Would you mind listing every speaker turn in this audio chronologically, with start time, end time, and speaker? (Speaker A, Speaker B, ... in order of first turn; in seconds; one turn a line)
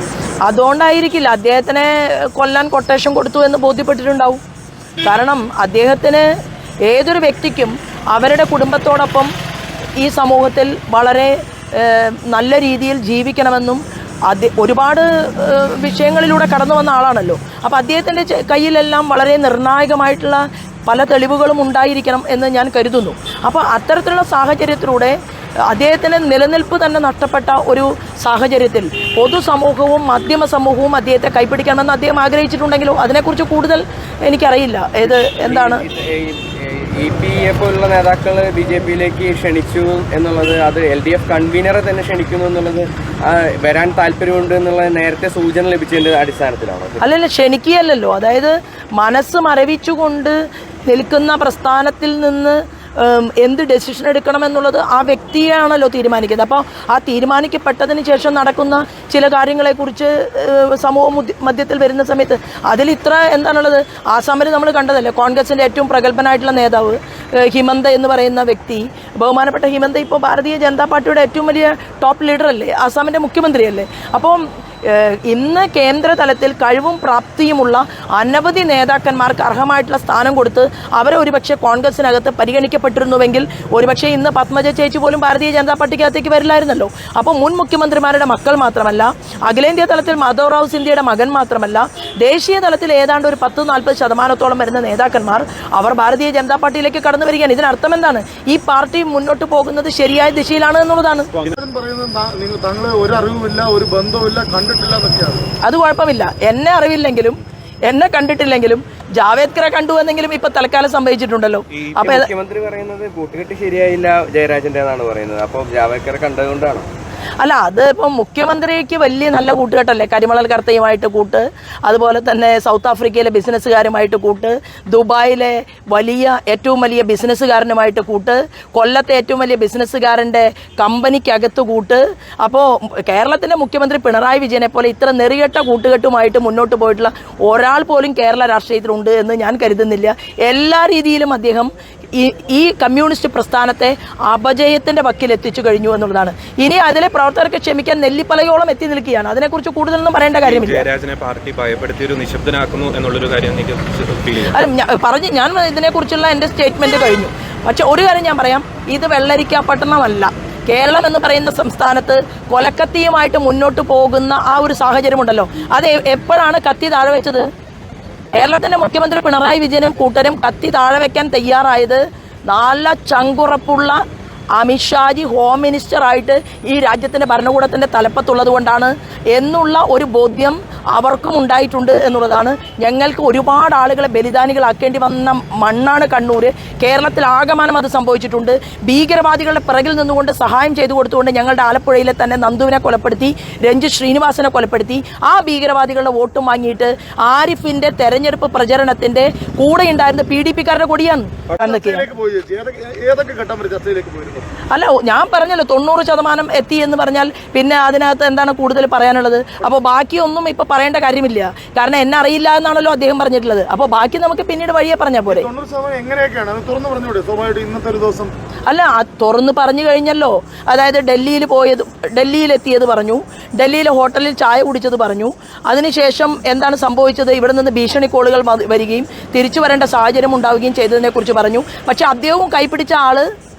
Speaker A: 0.5-4.4
Speaker A: 5.0-6.3
Speaker A: 6.9-9.3
Speaker A: 10.0-25.2
Speaker A: 25.7-35.9
Speaker B: 35.0-47.0
Speaker A: 47.0-101.3
Speaker C: 101.5-105.5
Speaker A: 105.6-112.3
Speaker D: 111.8-112.1
Speaker B: 112.0-116.9
Speaker A: 117.4-150.9
Speaker D: 150.4-154.6
Speaker A: 154.4-167.4
Speaker A: 168.3-174.0
Speaker A: 174.6-202.1
Speaker C: 201.5-204.5
Speaker A: 204.7-215.5
Speaker C: 215.3-218.3
Speaker A: 218.7-233.3